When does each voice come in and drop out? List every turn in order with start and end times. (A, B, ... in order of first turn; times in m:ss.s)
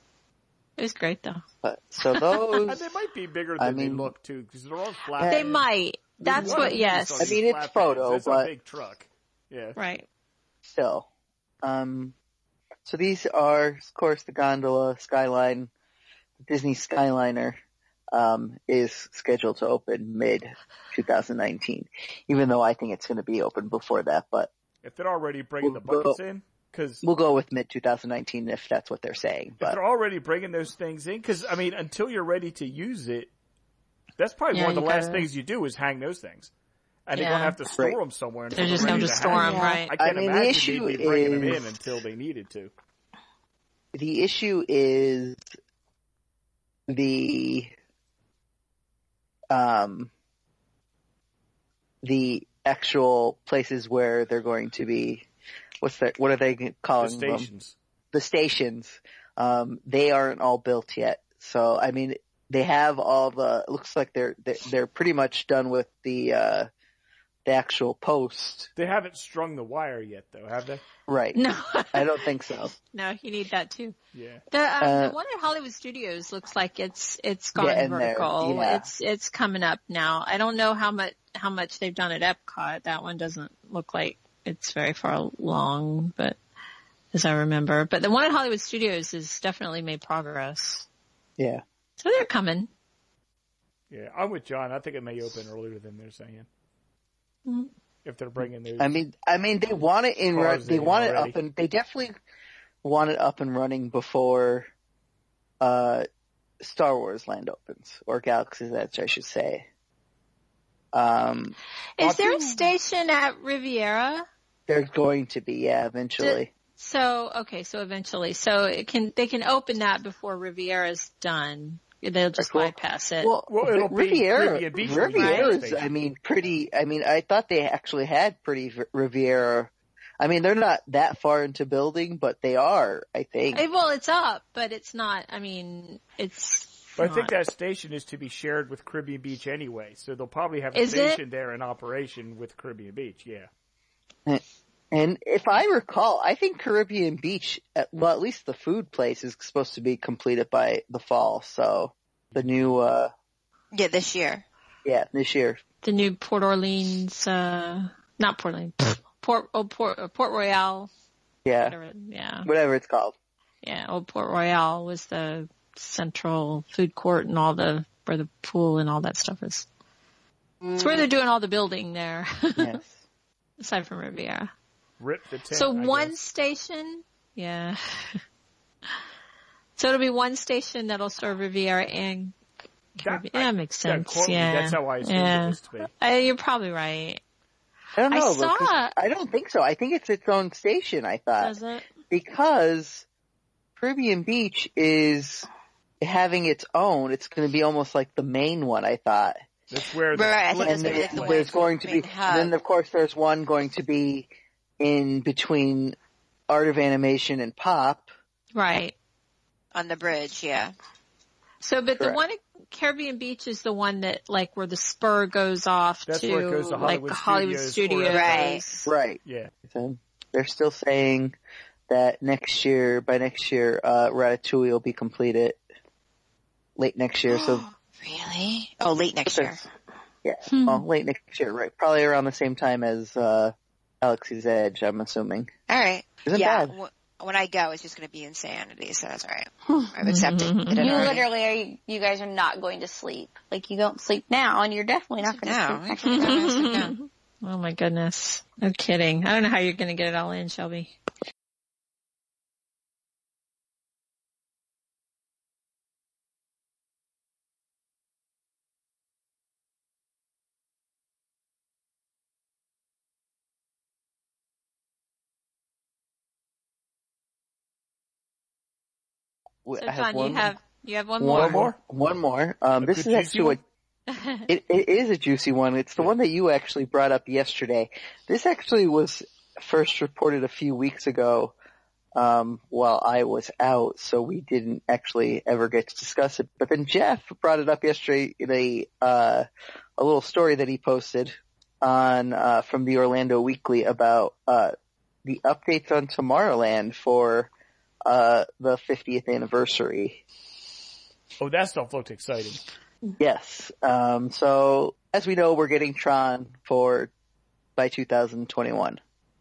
0:00.8-0:01.4 A
0:01.6-0:02.9 B
0:02.0-0:02.4 A
0:02.7-0:05.6 C
0:03.6-0:04.1 B
0:05.2-0:05.5 B
0:05.2-0:07.4 A
0:06.2-0:09.8 C
0:06.2-0:08.5 B
0:09.8-0:10.1 A
0:10.6-0:11.1 B
0:11.6-0:12.1 B
0:12.8-0:15.7 B
0:16.4-0:17.6 B
0:18.1-0:24.5 B
0:24.8-0:27.0 C
0:25.6-0:26.2 B
0:27.0-0:29.8 B
0:29.6-0:33.3 C
0:34.2-0:36.5 C
0:34.5-0:35.3 A
0:37.1-0:42.7 C
0:37.1-0:37.6 A
0:38.5-0:39.9 A
0:40.0-0:41.7 B
0:43.9-0:45.4 B
0:46.9-0:47.7 B
0:49.5-0:50.1 B
0:52.0-0:55.3 B
0:55.8-0:57.5 B
0:57.0-0:57.8 C
0:58.1-1:06.7 B
1:07.5-1:08.7 B
1:08.8-1:10.8 C
1:11.1-1:11.4 B
1:11.4-1:12.1 A
1:11.9-1:12.7 B
1:12.9-1:14.0 A
1:14.1-1:14.4 C
1:14.5-1:26.4 A
1:14.8-1:15.2 B
1:17.6-1:18.9 B
1:27.1-1:30.9 A
1:31.4-1:31.6 B
1:32.0-1:32.7 A
1:33.9-1:36.5 C
1:38.0-1:39.0 C
1:38.8-1:42.1 B
1:40.3-1:41.4 C
1:42.8-1:44.7 B
1:45.6-1:46.1 B
1:46.6-1:49.7 B
1:50.9-1:52.7 B
1:52.0-1:54.2 A
1:54.7-1:56.5 B
1:56.2-2:03.3 A
2:02.4-2:13.6 B
2:03.5-2:05.9 C
2:05.2-2:05.5 A
2:13.5-2:17.3 A
2:17.0-2:23.5 C
2:20.7-2:21.2 A
2:24.3-2:33.1 B
2:33.7-2:34.4 D
2:34.8-2:35.6 B
2:35.8-2:40.9 A
2:41.4-2:41.8 B
2:41.6-2:42.5 A
2:42.4-2:43.2 B
2:43.6-2:49.7 A
2:50.7-2:52.8 A
2:52.6-2:53.0 B
2:53.6-2:54.5 A
2:55.0-2:56.2 C
2:55.5-2:58.2 A
2:59.8-3:02.4 A
3:03.0-3:05.9 C
3:03.0-3:07.2 A
3:08.0-3:11.6 B
3:08.1-3:08.9 A
3:11.4-3:11.8 A
3:12.1-3:13.0 B
3:13.8-3:15.5 B
3:16.0-3:19.4 B
3:19.7-3:21.6 C
3:20.2-3:22.5 D
3:20.6-3:24.3 B
3:24.8-3:26.0 B
3:26.5-3:28.1 B
3:28.6-3:28.9 A
3:29.7-3:30.7 D
3:31.6-3:38.9 A
3:36.1-3:38.6 C
3:38.1-3:38.6 D
3:38.9-3:41.4 B
3:39.2-3:39.5 C
3:41.9-3:45.6 B
3:46.8-3:47.7 B
3:47.3-3:49.6 D
3:49.3-3:49.6 B
3:50.2-3:55.5 B
3:50.5-3:50.9 A
3:55.7-4:01.3 D
3:56.2-3:56.7 B
4:00.1-4:01.2 A
4:00.8-4:06.6 E
4:05.2-4:06.9 D
4:06.1-4:11.0 A
4:29.6-4:30.5 B
4:29.8-4:31.7 A
4:31.2-4:33.6 B
4:31.3-4:31.8 C
4:32.8-4:33.6 C
4:34.1-4:34.5 A
4:34.5-4:41.5 B
4:42.2-4:49.5 B
4:50.0-4:54.7 B
4:55.2-4:57.5 B
4:58.0-5:00.2 B
5:01.4-5:02.6 C
5:03.2-5:07.1 B
5:07.8-5:09.0 B